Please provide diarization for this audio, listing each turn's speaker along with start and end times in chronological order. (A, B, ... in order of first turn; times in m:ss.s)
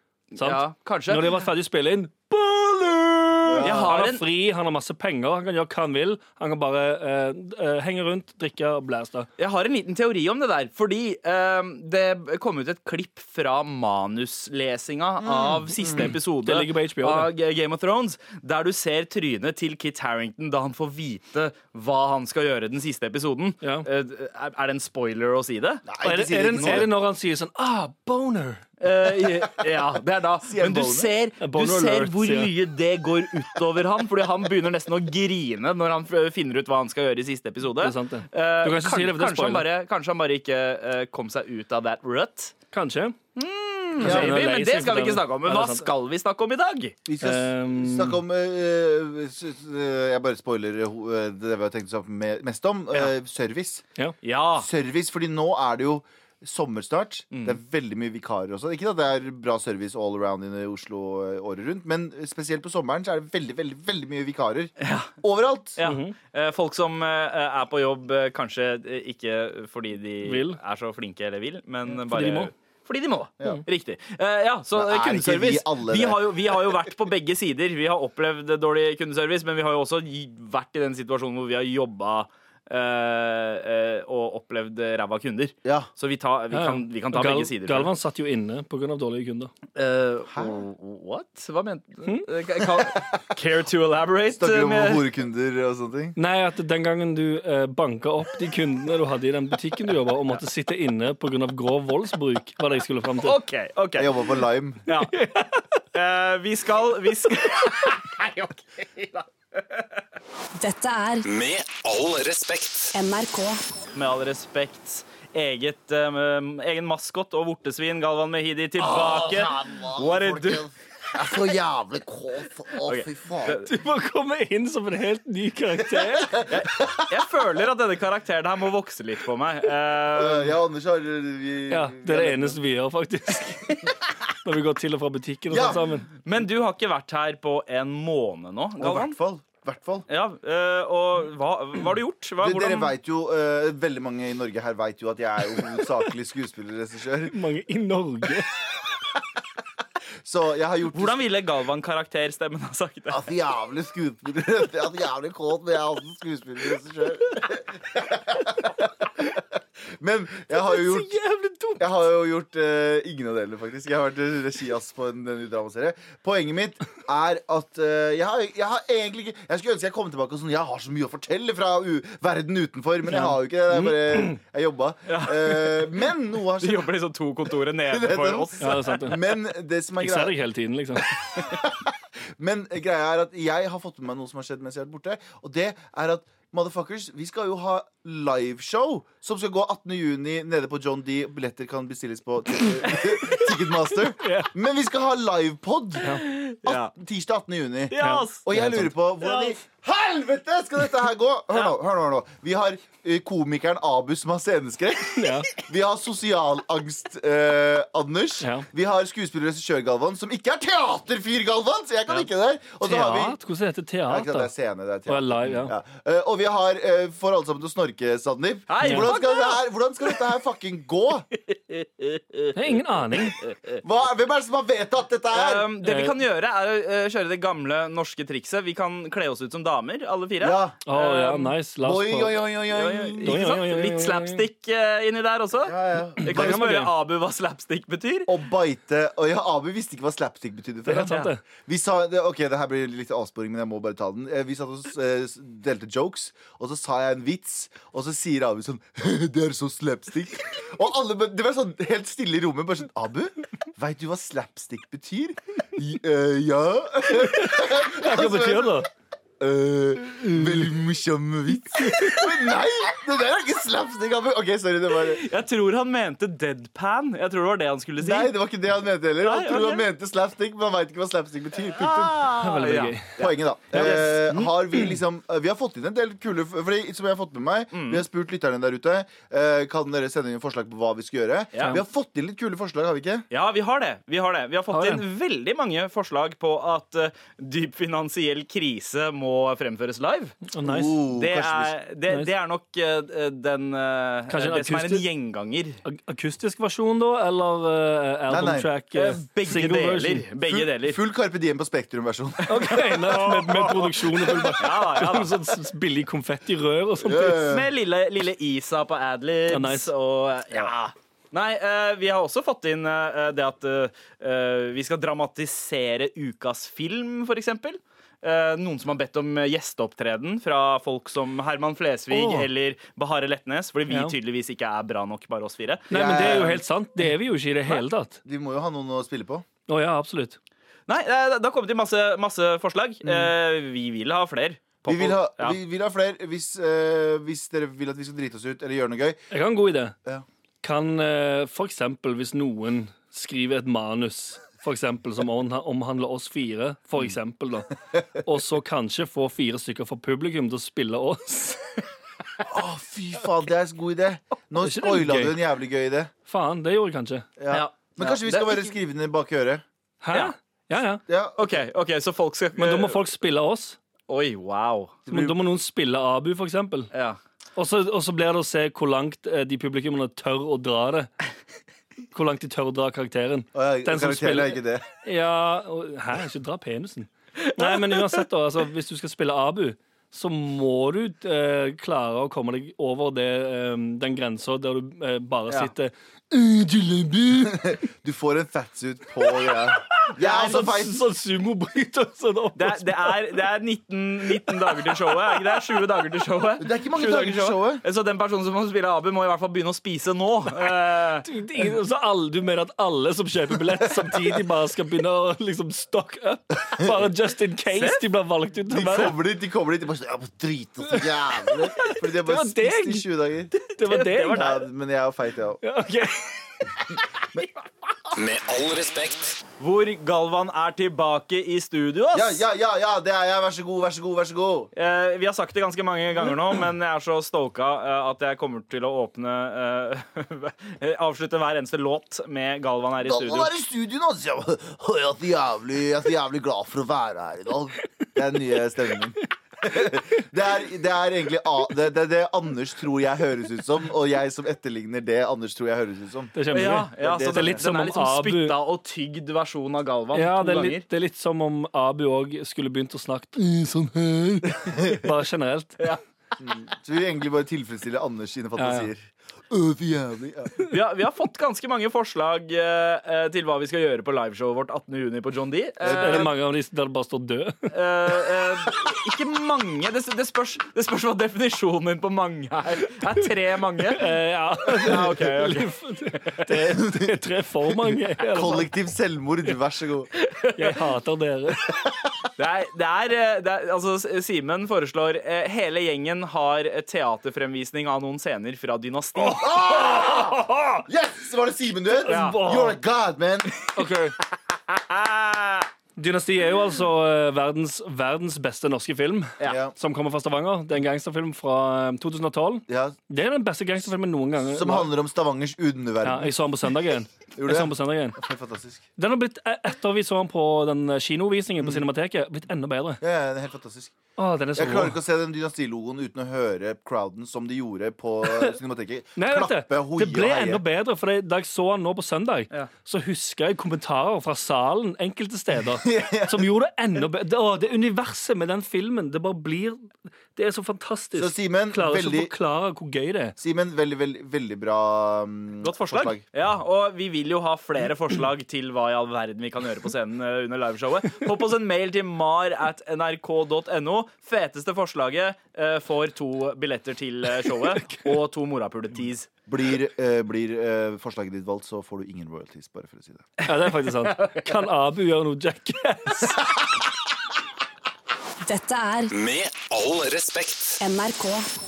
0:00.3-0:01.4 A
0:00.4-0:09.3 B
0:03.5-0:03.9 C
0:03.6-0:04.2 A
0:09.4-0:25.9 A
0:15.2-0:16.1 C
0:16.0-0:17.3 B
0:23.6-0:23.9 B
0:25.9-0:26.9 C
0:26.0-0:28.7 B
0:26.5-0:26.9 A
0:28.8-0:42.6 A
0:30.4-0:31.1 C
0:31.4-0:32.6 B
0:37.8-0:39.7 B
0:42.7-0:43.2 B
0:43.4-0:47.0 A
0:44.0-0:45.9 B
0:44.0-0:44.4 C
0:47.1-0:53.8 C
0:47.2-0:48.2 B
0:54.2-0:54.7 A
0:54.6-1:05.8 C
0:57.3-0:57.6 A
1:04.8-1:05.1 A
1:05.8-1:27.9 A
1:05.8-1:06.1 B
1:10.2-1:10.6 B
1:11.9-1:12.5 B
1:14.7-1:16.7 C
1:25.6-1:25.9 C
1:26.5-1:29.5 B
1:29.8-1:35.0 A
1:34.4-1:36.2 C
1:36.2-1:43.4 B
1:43.2-1:44.3 A
1:44.0-1:44.8 C
1:44.9-1:45.3 A
1:45.1-1:45.6 B
1:45.9-1:49.9 A
1:50.6-1:51.2 D
1:51.2-1:53.0 E
1:52.9-1:53.6 D
1:53.9-2:00.7 A
1:58.8-2:03.7 C
2:02.8-2:03.7 A
2:03.6-2:06.5 B
2:05.9-2:07.1 C
2:06.5-2:10.6 A
2:10.1-2:12.6 C
2:11.7-2:16.1 B
2:15.5-2:15.9 C
2:16.2-2:19.2 A
2:18.8-2:20.1 C
2:20.1-2:23.0 A
2:22.4-2:27.4 C
2:27.3-2:28.6 B
2:30.2-2:31.2 C
2:30.9-2:33.3 A
2:33.1-2:39.4 C
2:40.0-2:41.2 C
2:40.7-2:41.8 B
2:41.8-2:56.9 C
2:53.1-2:54.4 B
2:55.1-2:55.9 A
2:56.6-2:59.2 A
2:57.9-3:00.4 C
2:58.6-2:59.2 B
3:00.0-3:01.2 B
3:01.3-3:33.4 C
3:12.8-3:13.4 A
3:14.2-3:14.5 B
3:16.1-3:16.9 A
3:17.9-3:18.4 A
3:18.0-3:18.9 B
3:19.2-3:19.6 A
3:25.2-3:25.5 B
3:28.4-3:28.7 B
3:32.8-3:34.5 B
3:34.1-3:41.3 C
3:35.1-3:35.7 B
3:38.7-3:39.6 A
3:41.5-3:42.8 A
3:42.6-3:43.4 B
3:43.4-3:43.8 A
3:43.8-3:45.7 C
3:45.3-3:51.5 A
3:45.8-3:46.2 B
3:50.4-3:50.8 C
3:50.9-3:52.4 B
3:51.8-3:53.6 C
3:52.7-3:58.3 A
3:53.2-3:54.4 B
3:55.7-3:56.6 C
3:56.2-3:56.9 B
3:58.3-4:18.9 C
4:00.9-4:01.4 B
4:17.2-4:18.9 B
4:19.4-4:25.3 C
4:20.2-4:20.7 B
4:21.8-4:22.3 B
4:25.1-4:28.4 A
4:28.0-4:32.3 C
4:29.2-4:29.9 A
4:31.7-4:34.9 A
4:32.4-4:33.1 B
4:33.2-4:43.3 C
4:37.7-4:38.0 A
4:41.5-4:41.8 A
4:43.3-4:50.4 A
4:44.7-4:45.0 B
4:50.5-4:51.0 B
4:50.6-4:51.8 C
4:51.1-4:55.8 A
4:54.3-4:55.0 B
4:55.8-5:00.3 B
4:58.3-4:58.7 C
4:58.9-5:01.0 A
5:00.4-5:02.8 C
5:02.5-5:07.6 B
5:02.6-5:05.4 A
5:07.0-5:07.7 C
5:07.5-5:26.4 A
5:09.5-5:09.9 B
5:22.1-5:22.5 B
5:25.9-5:26.6 C
5:25.9-5:28.2 B
5:28.2-5:29.5 C
5:29.7-5:30.4 B
5:30.9-5:35.6 A
5:33.0-5:33.3 C
5:34.9-5:39.2 C
5:39.3-5:40.0 B
5:40.6-5:51.8 B
5:52.4-5:56.1 C
5:54.6-5:55.4 B
5:56.3-5:57.3 B
5:57.4-5:59.6 C
5:57.5-5:58.7 A
6:00.0-6:01.0 B
6:01.1-6:01.4 C
6:01.4-6:03.0 A
6:02.6-6:03.8 B
6:04.1-6:05.0 A
6:05.1-6:05.4 C
6:05.1-6:06.9 B
6:06.9-6:07.2 A
6:07.6-6:11.1 B
6:12.1-6:27.8 B
6:13.6-6:14.8 C
6:17.4-6:18.2 A
6:27.4-6:31.0 C
6:29.2-6:33.4 B
6:32.6-6:41.3 A
6:34.5-6:35.7 B
6:36.6-6:37.8 C
6:41.2-6:49.2 B
6:43.9-6:44.2 C
6:47.7-6:48.0 A
6:48.7-6:53.5 C
6:50.9-6:53.0 B
6:53.6-6:54.6 B
6:53.8-6:54.6 A
6:54.3-6:55.6 C
6:55.6-6:56.7 B
6:58.2-6:59.4 E
6:59.6-7:02.4 A
7:02.1-7:04.7 C
7:04.7-7:13.5 A
7:13.0-7:26.3 C
7:26.4-7:28.6 B
7:26.5-7:30.9 A
7:27.0-7:27.6 C
7:30.1-7:35.8 B
7:34.6-7:35.1 C
7:36.4-7:40.6 C
7:38.6-7:38.9 B
7:40.6-7:46.3 A
7:45.8-7:46.3 C
7:45.9-7:47.7 B
7:47.7-7:54.1 A
7:53.9-7:58.7 B
7:54.7-7:55.7 A
7:56.5-7:57.2 C
7:58.3-8:00.1 C
8:00.2-8:00.8 A
8:00.5-8:01.8 B
8:01.7-8:02.1 C
8:02.4-8:09.8 A
8:09.2-8:13.6 C
8:10.4-8:10.6 B
8:12.0-8:12.8 B
8:12.1-8:12.4 A
8:13.8-8:14.2 B
8:14.5-8:15.7 A
8:16.0-8:24.9 B
8:19.4-8:19.7 C
8:22.7-8:23.0 C
8:24.4-8:26.3 C
8:26.0-8:28.2 B
8:27.4-8:28.8 C
8:29.0-8:33.0 B
8:33.0-8:33.9 C
8:34.2-8:35.0 B
8:34.6-8:40.6 C
8:39.2-8:53.4 B
8:45.8-8:46.5 C
8:51.2-8:52.3 C
8:53.4-8:56.2 C
8:55.6-9:09.3 A
9:07.6-9:08.0 B
9:09.5-9:13.3 C
9:13.4-9:16.5 B
9:14.0-9:14.6 A
9:18.5-9:19.1 D
9:19.1-9:20.8 E
9:20.8-9:21.5 D